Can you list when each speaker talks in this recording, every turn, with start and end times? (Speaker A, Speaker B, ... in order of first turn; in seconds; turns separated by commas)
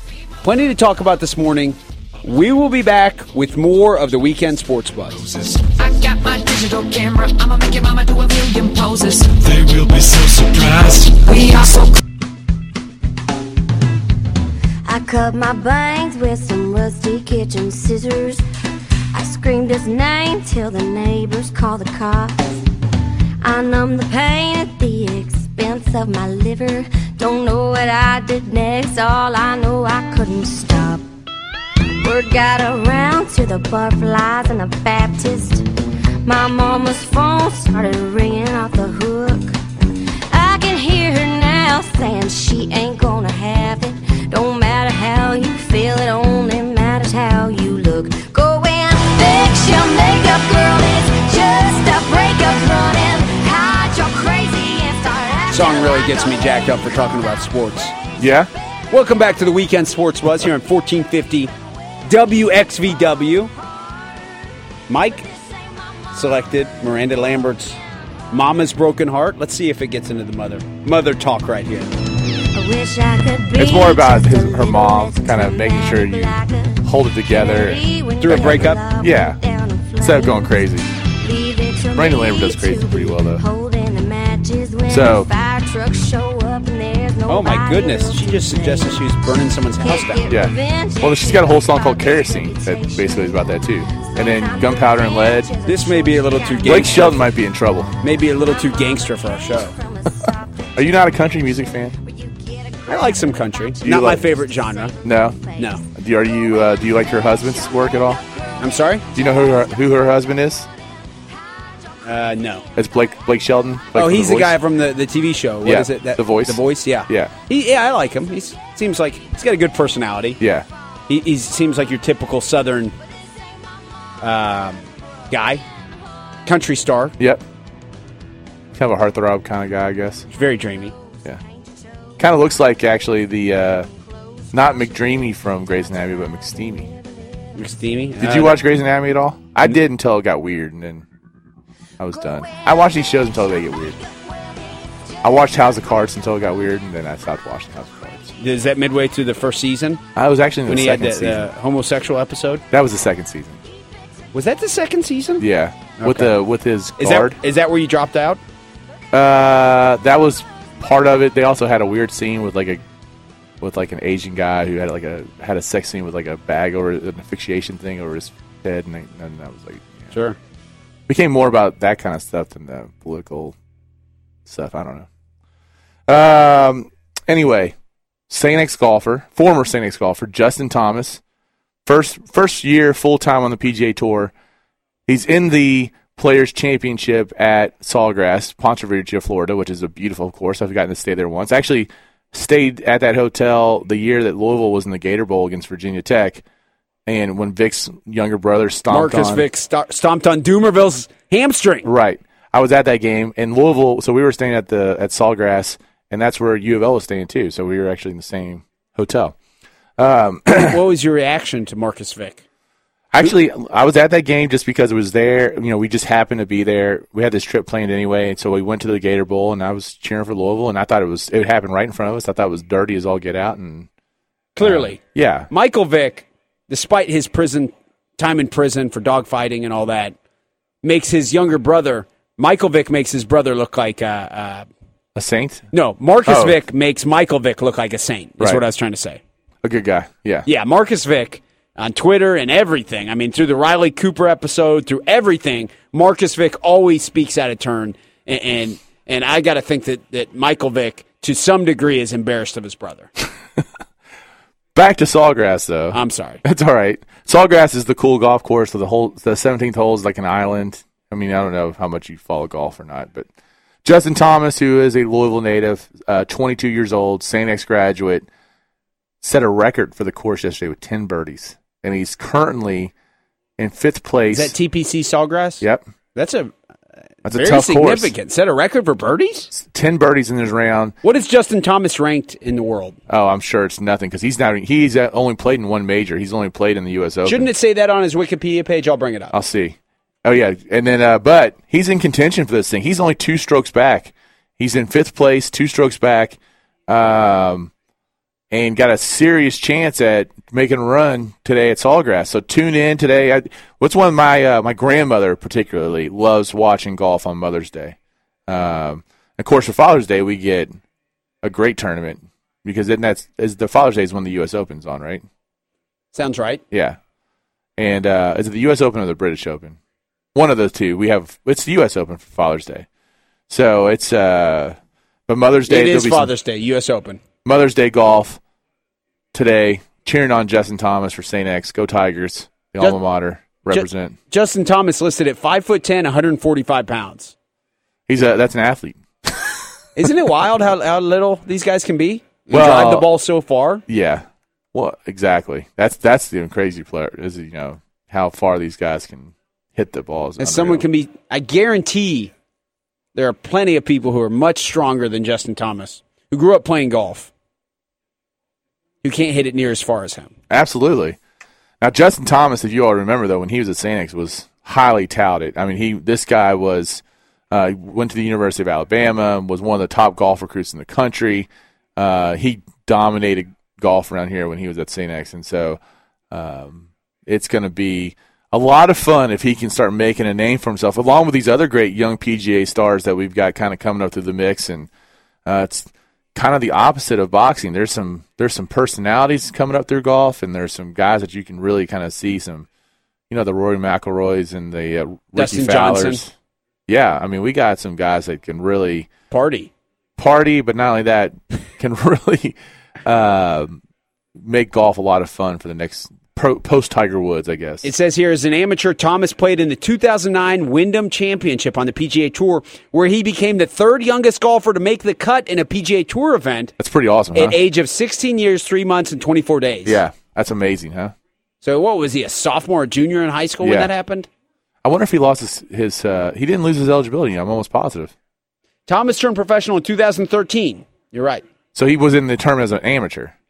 Speaker A: 0.4-5.2, Speaker B: 5.2-5.6, Speaker C: 5.6-9.4, Speaker B: 9.3-11.4, Speaker C: 11.2-11.9, Speaker D: 14.8-18.4, Speaker D: 19.1-22.7, Speaker D: 23.4-31.1, Speaker D: 32.0-35.7, Speaker D: 36.2-39.6, Speaker D: 40.3-57.0, Speaker A: 55.5-57.9, Speaker E: 58.2-58.5, Speaker A: 58.9-61.5, Speaker A: 62.0-63.5, Speaker A: 64.9-65.3, Speaker A: 66.1-67.8, Speaker A: 68.3-71.9, Speaker D: 72.5-108.8, Speaker E: 73.6-79.4, Speaker A: 78.2-78.8, Speaker E: 80.0-80.9, Speaker E: 81.9-83.4, Speaker E: 84.9-85.3, Speaker A: 87.3-90.3, Speaker E: 90.3-95.5, Speaker A: 95.7-97.2, Speaker E: 96.6-97.9, Speaker A: 98.0-99.8, Speaker E: 100.7-102.0, Speaker A: 102.9-104.9, Speaker E: 103.8-104.3, Speaker E: 105.0-105.4, Speaker A: 105.6-105.8, Speaker E: 105.9-108.2, Speaker A: 108.6-109.0, Speaker E: 109.1-110.7, Speaker A: 112.0-112.6, Speaker E: 112.7-114.6, Speaker A: 113.9-120.4, Speaker E: 115.6-117.3, Speaker E: 120.4-120.7, Speaker A: 121.1-122.9, Speaker A: 124.2-125.6, Speaker A: 126.5-127.2, Speaker E: 128.7-130.2, Speaker A: 130.3-130.9, Speaker D: 131.5-132.1, Speaker E: 132.2-133.9, Speaker E: 134.5-136.9, Speaker A: 137.5-138.6, Speaker E: 138.2-141.0, Speaker E: 142.0-144.0, Speaker D: 142.2-143.1, Speaker D: 143.9-144.8, Speaker E: 145.2-148.3, Speaker A: 148.4-150.0, Speaker E: 150.1-151.5, Speaker A: 150.7-152.6, Speaker E: 152.7-153.6, Speaker A: 154.3-155.4, Speaker E: 155.4-157.4, Speaker A: 156.0-156.3, Speaker A: 157.0-158.4, Speaker E: 159.1-162.8, Speaker E: 163.6-170.1, Speaker A: 170.1-170.4, Speaker E: 171.1-173.5, Speaker E: 174.4-175.1, Speaker E: 176.1-177.7, Speaker E: 178.3-181.2, Speaker E: 181.8-184.3, Speaker E: 185.1-196.4, Speaker E: 197.1-199.5, Speaker A: 198.9-201.9, Speaker E: 201.8-209.3, Speaker E: 210.0-210.8, Speaker A: 210.5-212.4, Speaker E: 213.1-223.9, Speaker A: 224.6-225.0, Speaker E: 224.6-225.5, Speaker A: 225.5-230.1, Speaker A: 230.8-234.7, Speaker E: 235.1-235.7, Speaker A: 235.7-239.2, Speaker E: 236.2-236.6, Speaker E: 238.4-238.6, Speaker E: 239.6-240.5, Speaker A: 240.4-253.1, Speaker E: 254.7-263.3, Speaker A: 255.9-256.4, Speaker E: 263.8-268.3, Speaker E: 269.2-272.9, Speaker E: 273.6-274.5, Speaker A: 274.3-275.6, Speaker A: 276.1-276.5, Speaker A: 277.2-279.5, Speaker E: 277.2-278.1, Speaker E: 279.5-280.9, Speaker A: 281.0-283.0, Speaker E: 283.1-287.5, Speaker A: 287.2-289.3, Speaker E: 289.3-297.7, Speaker E: 298.5-307.9, Speaker E: 308.5-310.8, Speaker E: 311.4-315.2, Speaker A: 316.1-316.6, Speaker E: 316.7-317.0, Speaker E: 317.8-319.8, Speaker E: 320.3-322.9, Speaker E: 323.5-324.8, Speaker E: 325.3-326.3, Speaker A: 325.7-327.2, Speaker E: 327.4-328.4, Speaker E: 329.3-334.1, Speaker A: 333.7-337.3, Speaker E: 338.1-339.6, Speaker A: 339.9-343.8, Speaker E: 342.5-343.1, Speaker E: 343.9-350.8, Speaker A: 350.4-352.3, Speaker A: 353.1-357.3, Speaker A: 359.0-360.3, Speaker E: 360.5-361.2, Speaker E: 361.8-375.8, Speaker E: 376.3-384.9, Speaker E: 385.4-392.7, Speaker E: 393.3-396.3, Speaker A: 395.3-396.2, Speaker E: 396.9-399.1, Speaker A: 399.3-399.7, Speaker E: 400.2-403.8, Speaker E: 404.4-407.9, Speaker A: 407.8-416.7, Speaker E: 416.8-417.6, Speaker A: 417.3-420.0, Speaker E: 419.8-421.1, Speaker A: 421.6-424.3, Speaker E: 423.6-423.9, Speaker E: 424.8-428.1, Speaker A: 428.9-431.4, Speaker E: 431.7-433.3